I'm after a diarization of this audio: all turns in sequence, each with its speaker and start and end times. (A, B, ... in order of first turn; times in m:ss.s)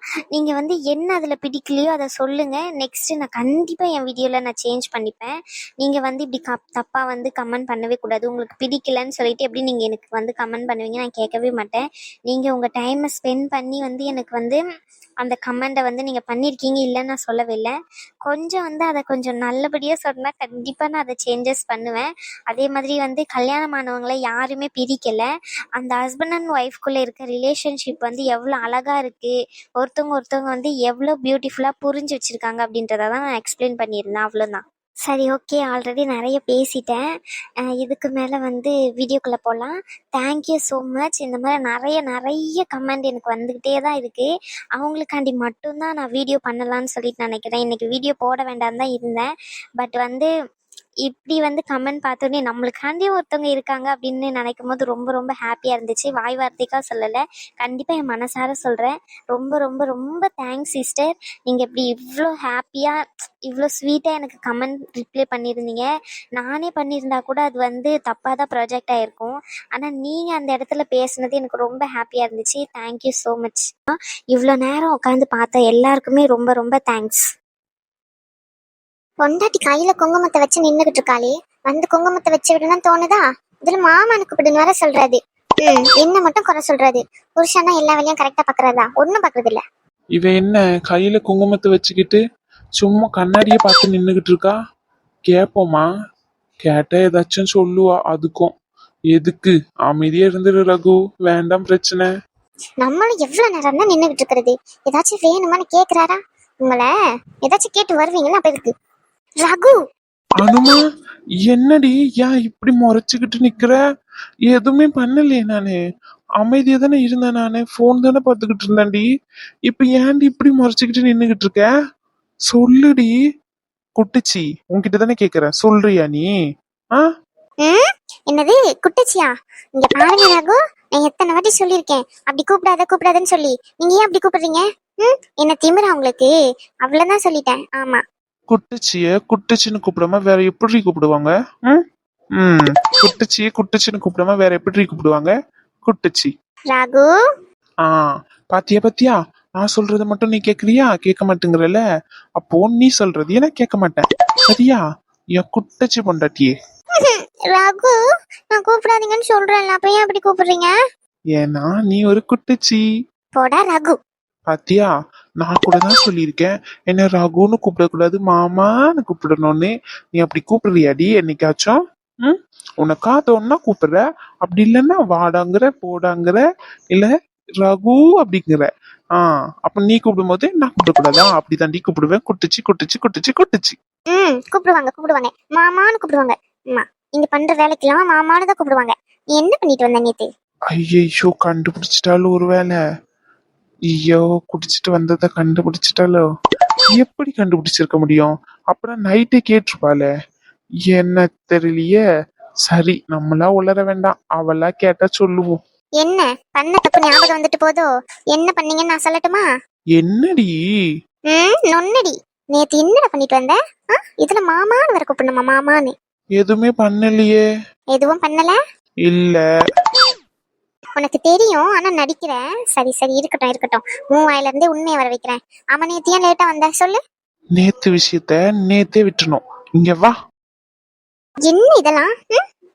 0:00.3-0:14.6 A
0:15.2-0:17.7 A
0:18.2-0:25.2 A
0:25.8-0:37.0 A
0:37.7-0:49.2 A
0:49.8-0:50.3 A
0:51.0-1:05.8 A
1:06.4-1:13.7 A
1:14.3-1:17.2 A
1:19.2-1:29.6 B
1:30.2-1:32.2 C
1:32.8-1:34.6 C
1:35.3-1:35.8 C
1:36.6-1:38.5 C
1:39.1-1:42.1 C
1:42.8-1:46.9 B
1:47.4-1:48.7 B
1:49.4-1:49.8 B
1:50.4-1:50.8 C
1:51.4-1:53.8 C
1:54.5-1:55.8 C
1:56.4-1:59.1 C
1:59.7-2:01.7 C
2:02.5-2:03.1 C
2:04.0-2:06.3 C
2:07.6-2:16.3 B
2:16.8-2:18.0 B
2:18.5-2:21.8 C
2:22.4-2:25.3 C
2:25.8-2:26.3 C
2:26.7-2:27.1 B
2:27.8-2:31.8 C
2:32.4-2:34.8 C
2:35.4-2:36.5 C
2:37.0-2:38.0 B
2:38.5-2:40.7 B
2:41.4-2:42.8 C
2:43.4-2:44.0 B
2:44.5-2:44.9 C
2:45.4-2:56.4 C
2:57.6-3:03.8 C
3:04.1-3:10.3 B
3:10.7-3:12.8 C
3:13.9-3:16.2 C
3:17.0-3:20.1 C
3:20.9-3:22.0 C
3:22.7-3:25.6 C
3:26.0-3:29.5 B
3:30.0-3:30.5 C
3:31.3-3:33.6 B
3:34.2-3:35.9 B
3:36.4-3:37.4 C
3:37.9-3:38.6 B
3:39.0-3:39.4 C
3:41.0-3:47.0 B
3:47.6-3:50.2 C
3:51.4-3:52.4 B